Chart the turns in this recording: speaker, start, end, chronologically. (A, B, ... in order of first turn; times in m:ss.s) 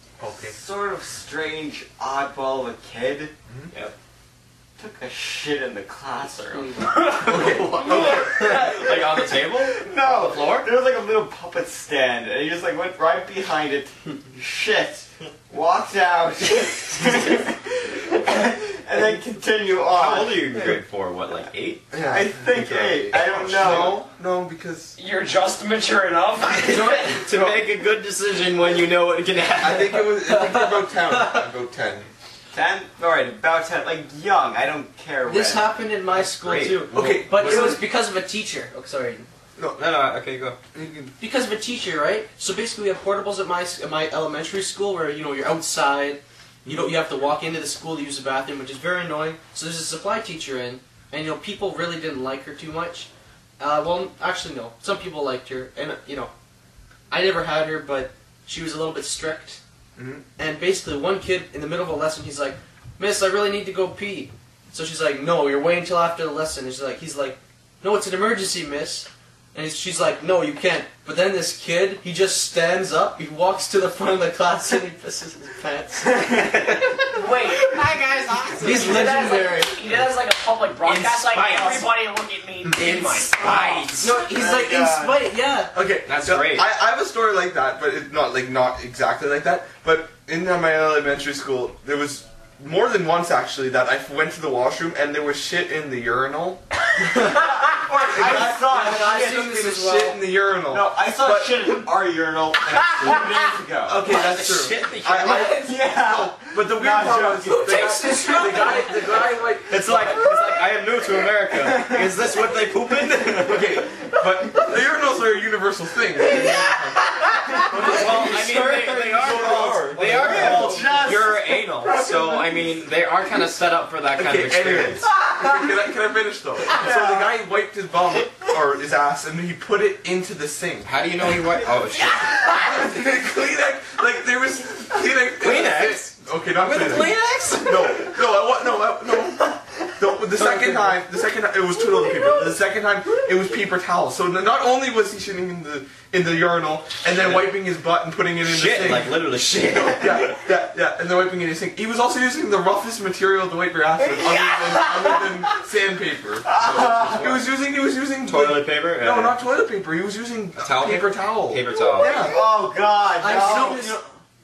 0:00.2-0:00.6 A
0:00.5-0:03.3 B
0:04.8-0:20.8 B
0:06.5-0:07.2 C
0:07.0-0:08.3 A
0:07.2-0:08.7 D
0:07.8-0:10.7 E
0:19.9-0:21.9 E
0:21.9-0:24.9 D
0:22.0-0:24.0 B
0:25.0-0:27.2 A
0:26.6-0:27.5 C
0:26.8-0:30.0 E
0:29.6-0:32.1 D
0:30.2-0:31.4 C
0:32.5-0:35.8 B
0:35.2-0:39.3 C
0:36.2-0:36.9 E
0:36.9-0:37.8 D
0:39.6-0:39.8 D
0:39.8-0:40.6 E
0:40.7-0:41.1 D
0:41.2-0:56.3 C
0:46.6-0:46.9 D
0:57.1-0:59.6 C
1:00.0-1:00.2 D
1:00.4-1:16.3 C
1:16.0-1:17.0 B
1:17.1-1:17.7 A
1:17.5-1:19.3 E
1:18.6-1:19.8 C
1:18.6-1:24.0 A
1:20.8-1:21.9 E
1:22.8-1:24.2 E
1:24.0-1:25.7 C
1:24.2-1:25.2 B
1:25.7-1:36.6 D
1:26.0-1:26.7 E
1:37.0-1:37.4 C
1:37.2-1:39.6 B
1:38.0-1:41.8 D
1:38.2-1:40.2 C
1:40.7-1:44.0 B
1:43.8-1:49.9 D
1:44.1-1:45.7 A
1:44.1-1:45.5 E
1:45.2-1:47.9 B
1:47.4-1:49.5 C
1:47.9-1:49.2 A
1:49.7-1:53.7 E
1:49.7-1:50.7 B
1:51.6-1:52.1 B
1:53.0-1:53.3 B
1:53.3-2:01.1 D
1:56.3-2:05.0 E
1:57.7-1:58.3 C
1:59.9-2:02.8 B
2:04.2-2:11.0 D
2:05.2-2:05.7 B
2:06.7-2:07.3 B
2:10.8-2:12.5 E
2:12.1-2:12.5 B
2:12.5-2:29.2 D
2:15.4-2:18.2 E
2:20.4-2:20.9 C
2:27.1-2:27.4 E
2:28.4-2:30.4 E
2:29.8-2:42.4 D
2:34.0-2:35.3 B
2:36.4-2:37.4 B
2:38.2-2:39.4 E
2:40.6-2:42.2 E
2:41.7-2:44.0 B
2:43.2-2:44.1 C